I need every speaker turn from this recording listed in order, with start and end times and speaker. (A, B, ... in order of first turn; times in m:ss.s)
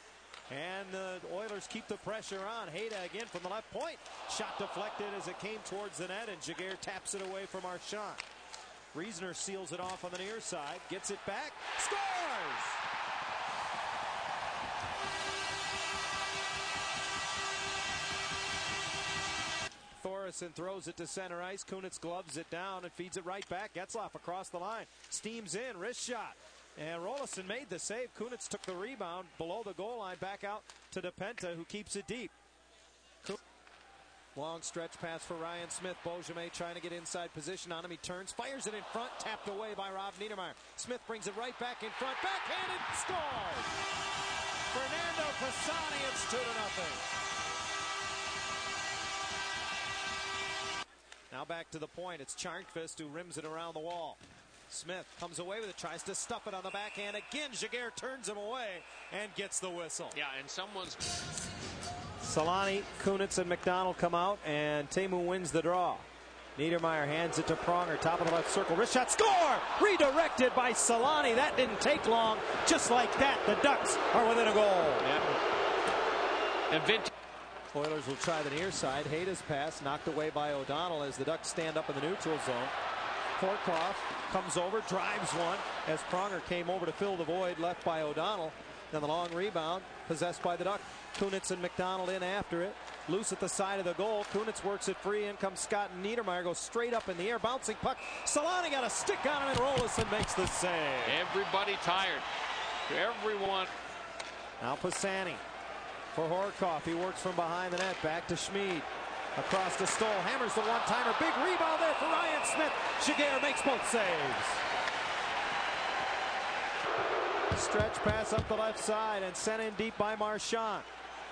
0:00.5-0:08.2 A
0:08.9-0:12.8 A
0:20.0-0:32.3 A
0:34.4-0:43.7 A
0:44.7-0:47.1 A
0:51.3-0:54.2 A
0:54.7-1:00.2 A
1:00.1-1:01.2 B
1:02.2-1:06.0 A
1:06.6-1:15.1 A
1:15.0-1:15.4 B
1:16.7-1:17.1 B
1:17.7-1:22.8 A
1:23.4-1:41.2 A
1:41.0-1:42.3 B
1:42.9-1:43.7 B
1:44.6-1:45.4 A
1:46.1-1:54.6 A
1:57.5-2:00.9 A